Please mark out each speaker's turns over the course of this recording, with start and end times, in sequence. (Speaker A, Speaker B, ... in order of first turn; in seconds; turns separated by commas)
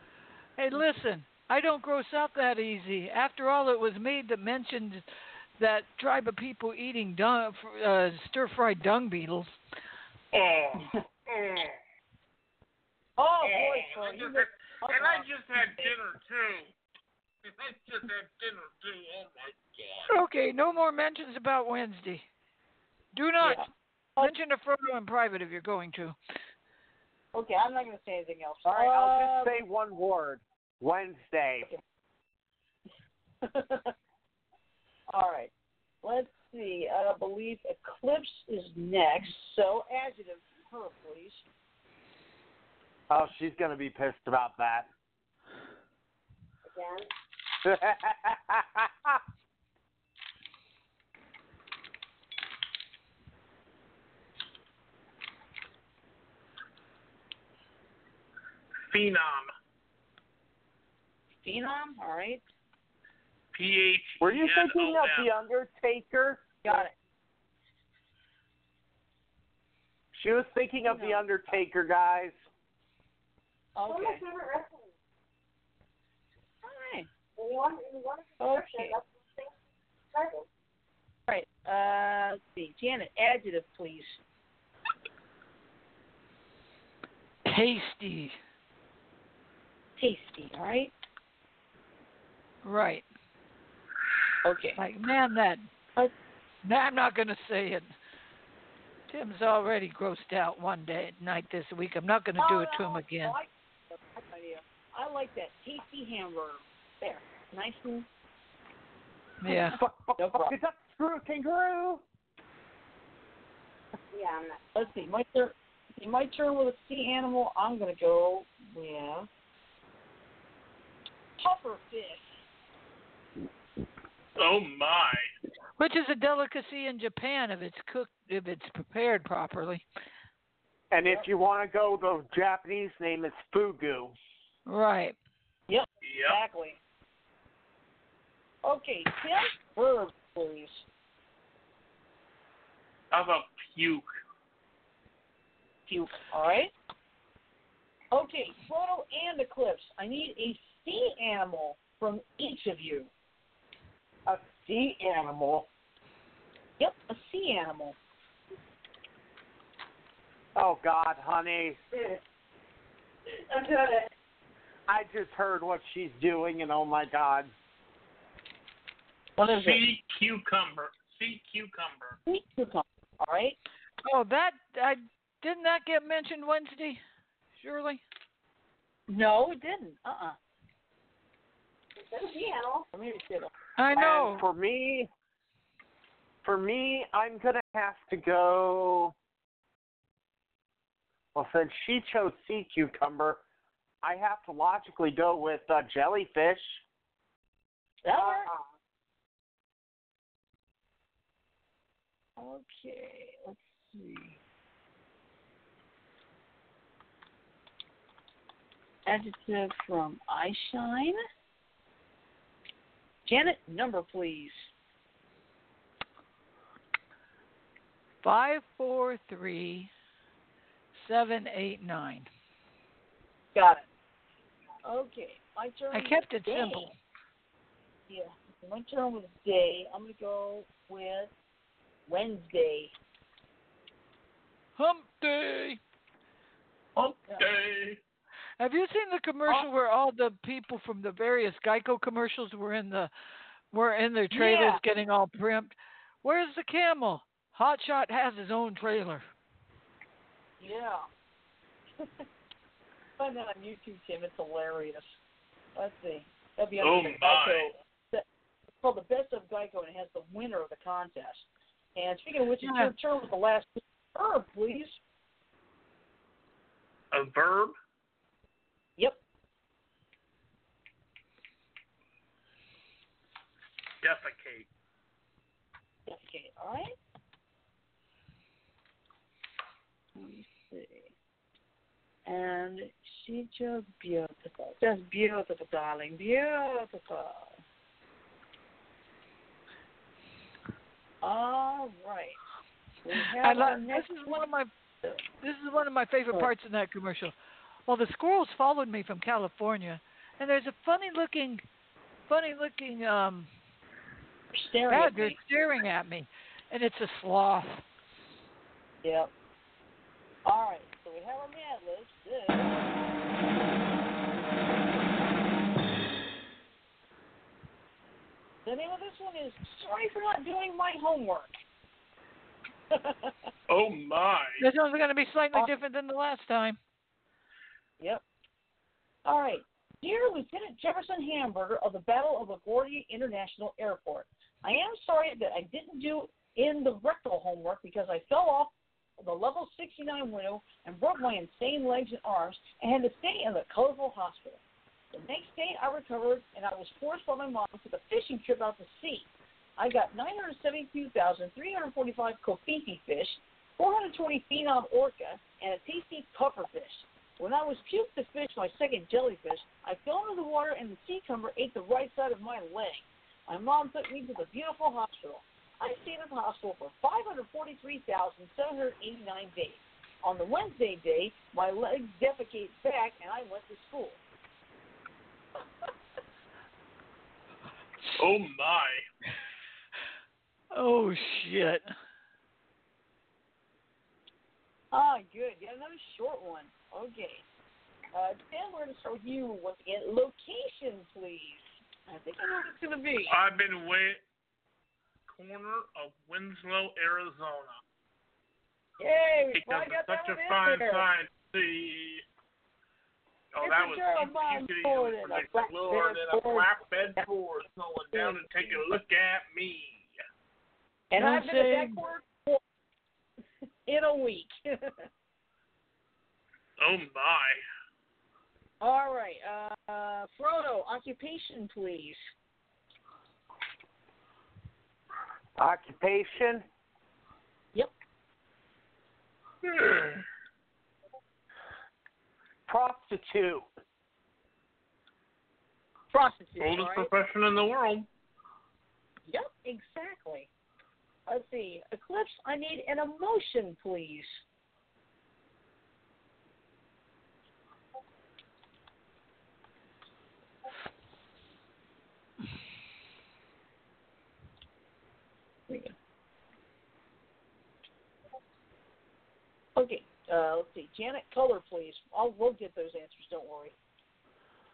Speaker A: 0.6-5.1, Speaker A: 5.6-9.6, Speaker B: 10.3-11.8, Speaker C: 13.2-15.9, Speaker B: 13.4-16.7, Speaker B: 17.4-20.2, Speaker A: 20.1-22.2, Speaker A: 23.1-23.7, Speaker C: 23.4-24.3, Speaker A: 24.2-26.2, Speaker C: 27.3-29.6, Speaker D: 28.6-31.7, Speaker C: 33.4-33.9, Speaker C: 35.1-35.5, Speaker C: 36.0-41.4, Speaker D: 43.1-44.9, Speaker E: 46.7-47.1, Speaker D: 47.6-49.2, Speaker B: 58.9-59.5, Speaker C: 61.4-62.4, Speaker B: 63.5-65.3, Speaker D: 64.2-66.8, Speaker C: 66.6-66.9, Speaker D: 70.2-72.3, Speaker C: 70.8-71.6, Speaker C: 73.8-74.2, Speaker E: 73.9-74.9, Speaker C: 76.6-77.1, Speaker E: 77.4-79.5, Speaker C: 78.4-79.0, Speaker E: 80.1-80.4, Speaker C: 81.3-84.2, Speaker A: 87.5-88.4, Speaker C: 90.0-90.9, Speaker A: 92.6-93.1, Speaker C: 94.4-94.8, Speaker A: 94.8-95.7, Speaker A: 96.7-97.9, Speaker A: 99.1-103.4, Speaker C: 102.4-108.1, Speaker A: 109.4-109.8, Speaker D: 109.7-112.0, Speaker C: 110.2-110.5, Speaker E: 114.1-114.6, Speaker C: 114.8-119.3, Speaker C: 121.4-122.3, Speaker B: 124.4-125.3, Speaker A: 125.8-129.8, Speaker D: 130.9-134.2, Speaker A: 134.7-135.2, Speaker C: 135.7-136.8, Speaker B: 136.0-136.4, Speaker C: 138.6-140.8, Speaker B: 143.1-144.1, Speaker C: 145.9-146.7, Speaker C: 148.1-153.1, Speaker D: 154.3-155.7, Speaker C: 156.8-158.0, Speaker D: 160.6-161.8, Speaker E: 161.9-162.2, Speaker E: 163.5-164.1, Speaker D: 164.9-167.5, Speaker C: 169.4-169.8, Speaker B: 169.5-172.2, Speaker C: 172.3-173.6, Speaker A: 174.1-177.0, Speaker A: 177.6-178.0, Speaker C: 179.1-180.4, Speaker E: 182.0-182.8, Speaker C: 182.9-183.5, Speaker A: 183.8-184.5, Speaker D: 183.9-185.1, Speaker D: 186.4-189.1, Speaker D: 191.3-193.4, Speaker D: 194.0-196.8, Speaker C: 198.0-198.5, Speaker E: 198.2-198.6, Speaker C: 202.4-204.4, Speaker C: 209.1-211.2, Speaker C: 213.3-214.7, Speaker A: 218.2-219.9, Speaker A: 221.0-222.3, Speaker C: 223.5-223.9, Speaker C: 224.8-226.9, Speaker A: 225.9-226.9, Speaker C: 228.1-231.3, Speaker C: 232.1-232.9, Speaker A: 234.8-235.8, Speaker B: 237.0-238.0, Speaker A: 238.6-243.1, Speaker A: 243.7-249.2, Speaker C: 244.3-244.8, Speaker C: 250.6-251.0, Speaker C: 253.2-255.2, Speaker C: 255.8-258.2, Speaker B: 256.8-257.7, Speaker C: 258.8-265.0, Speaker A: 262.6-262.9, Speaker B: 267.1-267.7, Speaker B: 274.0-274.7, Speaker C: 276.1-277.0, Speaker C: 280.2-281.1, Speaker C: 282.3-287.6, Speaker C: 291.2-292.4, Speaker C: 293.0-294.4, Speaker A: 293.4-294.7, Speaker A: 295.4-297.3, Speaker A: 297.9-301.6, Speaker A: 302.3-303.5, Speaker C: 304.5-305.4, Speaker A: 304.9-307.8, Speaker C: 309.0-309.3, Speaker C: 310.4-312.8, Speaker C: 318.6-321.5, Speaker C: 322.9-323.5, Speaker B: 323.7-324.6, Speaker A: 324.6-326.8, Speaker C: 329.2-344.6, Speaker C: 345.1-374.2, Speaker B: 378.2-379.0, Speaker A: 380.7-381.9, Speaker C: 384.9-387.4, Speaker C: 388.1-393.4, Speaker B: 393.3-394.2, Speaker B: 395.3-397.8, Speaker C: 399.0-401.1, Speaker B: 399.6-402.2, Speaker B: 403.5-410.1, Speaker C: 403.6-406.7, Speaker C: 408.1-408.8, Speaker C: 411.1-412.6, Speaker A: 411.2-412.0, Speaker C: 413.9-415.1, Speaker B: 416.8-417.6, Speaker C: 418.8-422.2, Speaker D: 425.6-426.7, Speaker B: 429.6-430.2, Speaker D: 432.7-433.6, Speaker C: 436.1-437.1, Speaker B: 436.6-438.1, Speaker C: 439.3-440.5, Speaker C: 441.3-444.3, Speaker C: 455.7-455.9, Speaker C: 459.8-463.8